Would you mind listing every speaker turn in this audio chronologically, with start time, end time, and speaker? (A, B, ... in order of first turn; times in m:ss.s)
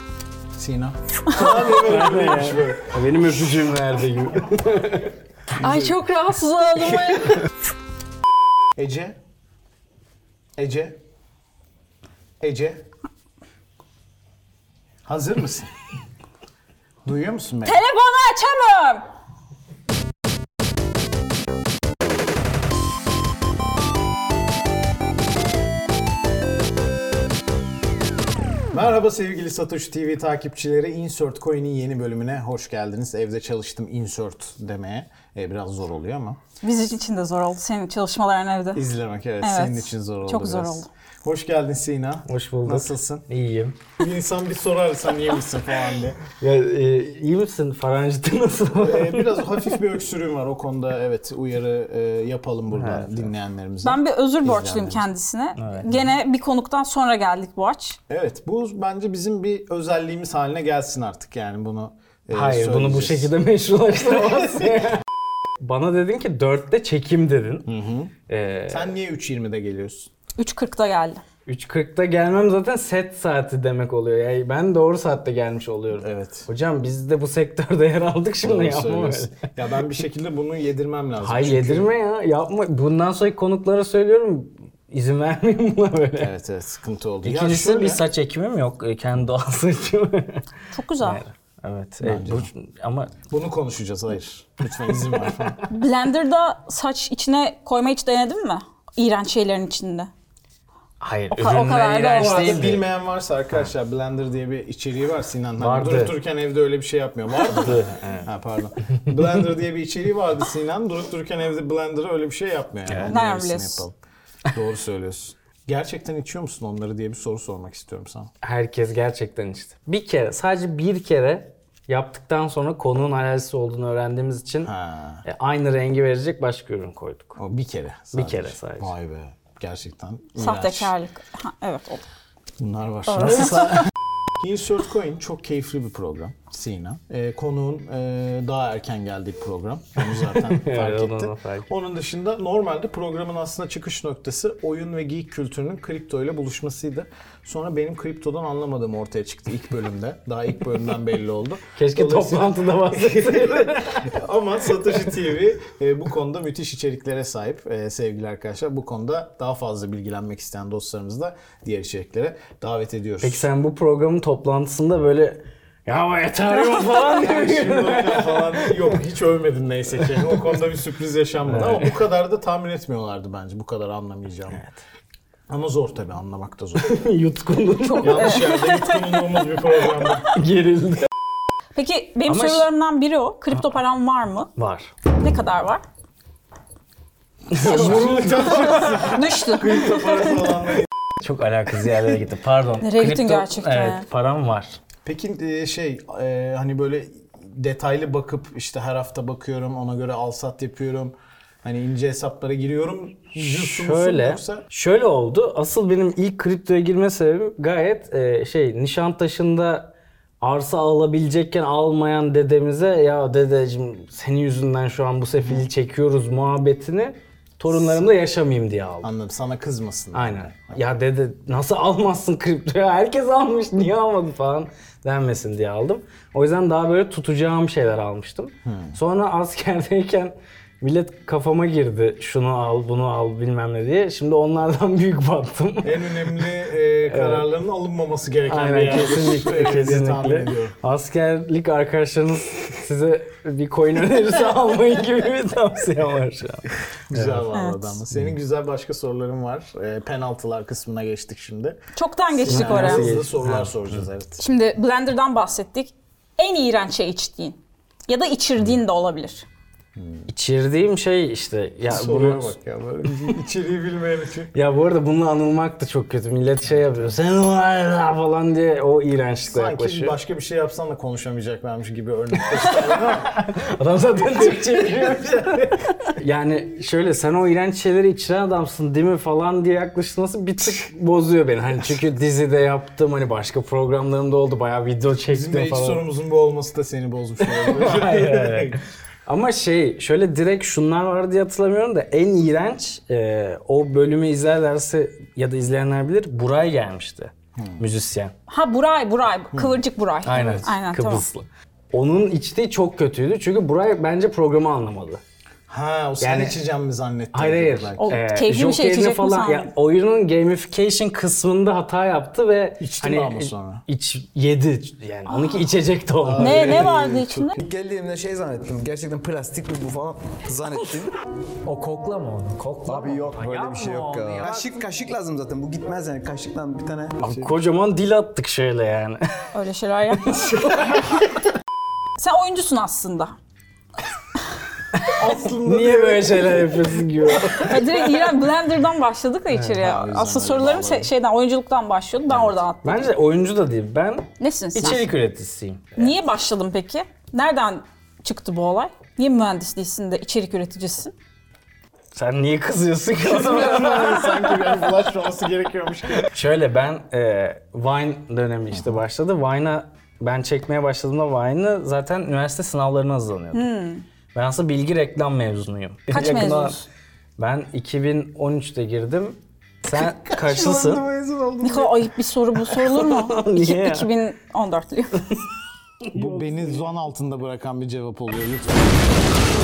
0:00.6-0:02.9 A
0:01.5-0:05.1 B
0:05.6-0:07.4 C
0:05.6-0:06.0 A
0:08.8-0:09.2 A
0:10.6-0:11.0 A
0:12.4-0:12.8 A
0:15.0-0:15.7 A
0:17.0-0:17.8 A
0:17.6-0:19.0 C
0:28.7-0:36.4 A
0:36.6-0:38.8 C
0:38.7-0:43.3 A
0:39.4-0:40.9 C
0:42.3-0:43.8 B
0:44.0-0:46.2 A
0:46.4-0:49.8 B
0:48.8-0:55.1 A
0:52.8-0:53.3 B
0:53.8-0:58.0 C
0:55.6-0:55.9 B
0:58.1-1:03.3 A
1:02.3-1:05.0 B
1:05.6-1:07.7 B
1:07.7-1:08.1 A
1:08.3-1:08.9 B
1:08.7-1:10.1 A
1:10.4-1:11.2 C
1:11.5-1:19.4 B
1:16.0-1:16.5 A
1:18.4-1:21.9 A
1:21.2-1:26.3 B
1:26.2-1:28.0 A
1:27.2-1:30.4 B
1:30.7-1:31.2 C
1:31.0-1:33.1 B
1:32.0-1:32.5 A
1:33.3-1:35.6 A
1:34.7-1:35.6 B
1:35.7-1:40.1 C
1:41.0-1:42.9 B
1:41.3-1:42.6 C
1:42.2-1:53.9 A
1:45.6-1:46.1 B
1:47.4-1:48.3 B
1:52.9-1:53.1 B
1:53.1-1:53.9 C
1:54.5-1:58.3 A
1:58.4-2:04.7 B
2:04.6-2:05.2 A
2:05.3-2:07.4 B
2:07.4-2:10.9 A
2:08.1-2:08.9 B
2:10.4-2:12.0 C
2:12.6-2:13.8 A
2:13.1-2:13.8 C
2:14.4-2:43.5 A
2:20.4-2:21.7 B
2:31.8-2:34.1 B
2:43.2-2:49.0 B
2:46.7-2:54.6 A
2:50.1-2:50.5 B
2:51.5-2:52.0 B
2:55.5-2:56.9 A
2:56.8-2:58.6 B
2:57.9-2:59.2 C
2:58.0-3:00.3 A
2:59.8-3:01.1 B
3:01.8-3:04.5 C
3:02.3-3:02.7 B
3:04.6-3:04.9 B
3:05.1-3:05.8 C
3:07.5-3:09.2 B
3:07.5-3:10.9 A
3:08.5-3:10.1 C
3:11.2-3:14.8 B
3:12.8-3:14.1 C
3:15.0-3:24.6 A
3:23.4-3:29.9 B
3:30.4-3:39.1 B
3:35.4-3:35.7 A
3:37.7-3:38.1 A
3:39.0-3:40.8 A
3:40.1-3:56.5 B
3:48.6-3:49.0 A
3:55.8-4:00.8 A
3:57.1-3:57.5 B
3:58.5-4:07.5 B
4:07.1-4:11.8 A
4:07.5-4:08.0 C
4:12.0-4:13.1 C
4:12.3-4:14.4 A
4:12.5-4:14.0 B
4:14.4-4:19.5 C
4:20.0-4:20.3 A
4:20.3-4:22.5 B
4:21.9-4:24.5 A
4:24.5-4:30.2 B
4:29.4-4:33.4 A
4:32.4-4:46.0 B
4:34.2-4:35.8 A
4:45.3-4:48.8 A
4:47.4-4:58.3 B
4:57.6-4:57.9 A
4:58.5-5:01.2 C
4:59.5-5:00.7 A
5:00.3-5:05.2 B
5:05.7-5:08.2 A
5:06.2-5:06.6 B
5:07.3-5:16.6 B
5:08.0-5:09.7 C
5:12.8-5:13.8 A
5:15.3-5:15.6 C
5:16.2-5:17.5 A
5:16.4-5:17.6 C
5:16.4-5:16.9 D
5:17.6-5:21.1 D
5:21.7-5:24.7 B
5:22.8-5:27.5 D
5:27.2-5:29.2 B
5:29.5-5:31.1 C
5:30.3-5:31.0 B
5:32.2-5:33.3 C
5:35.0-5:38.3 B
5:35.1-5:37.0 A
5:37.6-5:43.1 C
5:39.8-5:41.1 A
5:42.3-5:42.6 A
5:42.8-5:45.9 B
5:44.4-5:45.1 C
5:46.0-5:51.1 C
5:52.1-5:54.8 B
5:53.2-5:56.3 A
5:56.3-6:03.7 B
5:58.7-5:59.0 A
6:03.5-6:04.0 C
6:04.3-6:06.8 B
6:06.1-6:06.9 C
6:06.2-6:06.7 A
6:07.4-6:11.0 B
6:09.9-6:12.0 A
6:11.6-6:15.3 C
6:12.7-6:14.1 B
6:16.1-6:19.0 A
6:16.2-6:16.8 B